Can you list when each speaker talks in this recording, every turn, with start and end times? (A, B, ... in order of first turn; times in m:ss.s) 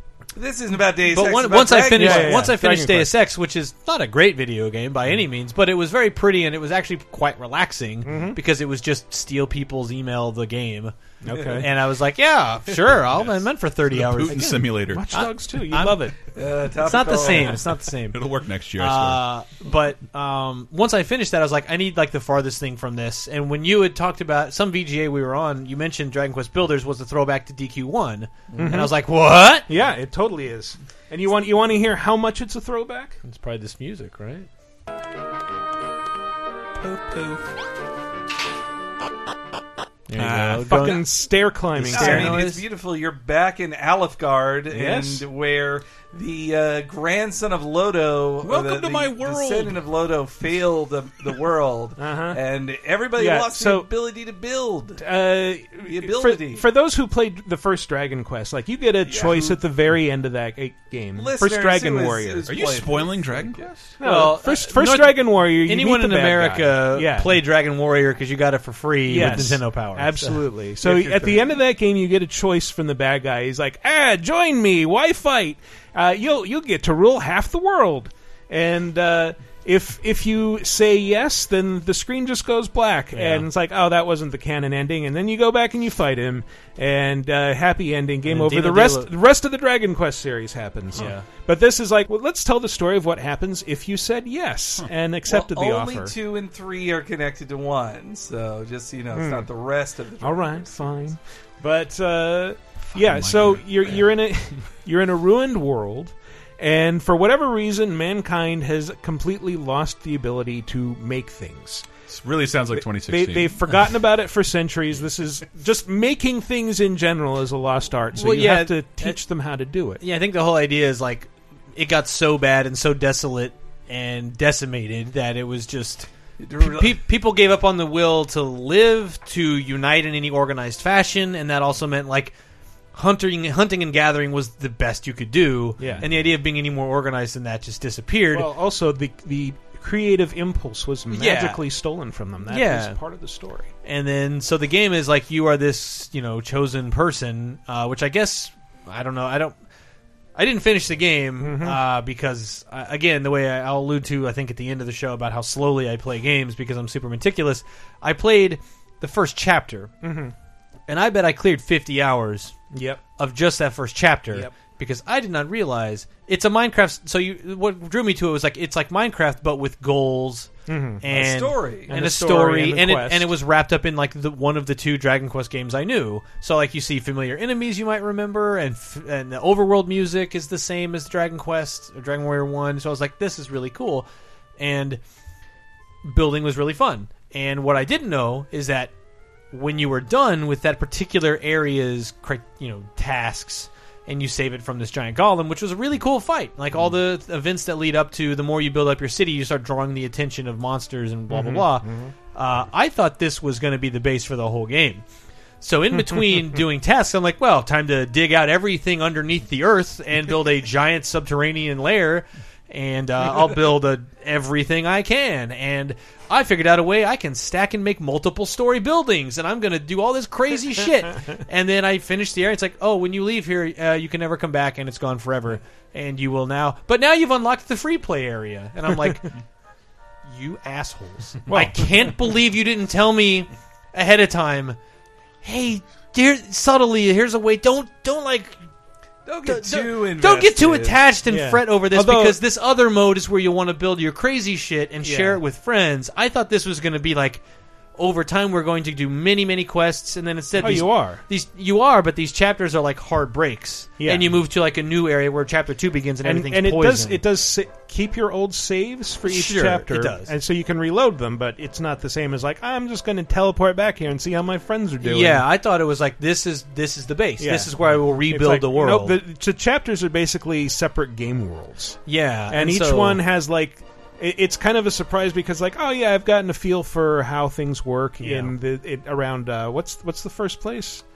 0:00.4-0:02.6 A
0:01.0-0:16.1 B
0:01.9-0:03.2 C
0:08.0-0:08.4 C
0:11.2-0:11.7 C
0:11.3-0:11.6 A
0:13.1-0:15.1 D
0:14.3-0:16.2 C
0:16.3-0:17.7 A
0:16.8-0:18.2 B
0:18.1-0:19.2 D
0:18.8-0:29.7 B
0:28.6-0:29.0 C
0:29.7-0:33.2 C
0:33.2-0:34.5 B
0:36.8-0:37.4 D
0:40.1-0:42.6 B
0:40.2-0:40.8 D
0:40.4-0:42.5 C
0:41.9-0:55.2 A
0:44.7-0:45.2 C
0:48.4-0:49.8 D
0:52.0-0:52.4 C
0:53.1-0:53.9 C
0:55.0-1:02.8 C
0:55.8-0:56.7 A
0:59.0-0:59.6 A
1:01.1-1:04.0 A
1:02.4-1:04.0 D
1:04.0-1:07.4 C
1:04.0-1:10.6 B
1:09.1-1:36.2 C
1:10.8-1:11.6 A
1:23.1-1:23.5 B
1:28.2-1:29.2 B
1:30.9-1:31.3 B
1:35.3-1:40.9 A
1:39.1-1:39.5 C
1:40.2-1:51.9 C
1:42.9-1:44.4 D
1:52.1-1:53.7 D
1:52.7-2:00.0 C
1:58.1-1:59.3 B
2:00.0-2:06.1 B
2:06.4-2:07.0 A
2:06.6-2:12.4 B
2:12.9-2:18.6 B
2:15.8-2:16.2 C
2:18.3-2:23.7 C
2:21.1-2:23.0 B
2:23.8-2:29.6 B
2:30.3-2:39.9 B
2:31.4-2:31.8 C
2:40.0-2:40.3 C
2:40.9-3:05.0 B
2:42.7-2:43.0 C
2:50.7-2:51.0 C
2:51.1-2:51.9 A
2:51.9-2:53.4 C
3:06.0-3:08.9 B
3:09.5-3:25.0 B
3:21.3-3:22.1 C
3:25.6-3:49.4 B
3:50.2-3:54.8 B
3:51.4-3:52.2 C
3:55.4-3:58.6 B
3:59.2-4:01.1 A
3:59.4-4:07.4 B
4:01.2-4:02.4 C
4:05.0-4:05.4 C
4:08.0-4:17.2 B
4:10.6-4:11.2 C
4:14.0-4:14.4 C
4:16.2-4:25.5 C
4:19.2-4:20.3 B
4:25.0-4:29.2 B
4:27.4-4:41.0 C
4:32.0-4:33.2 B
4:38.2-4:38.6 B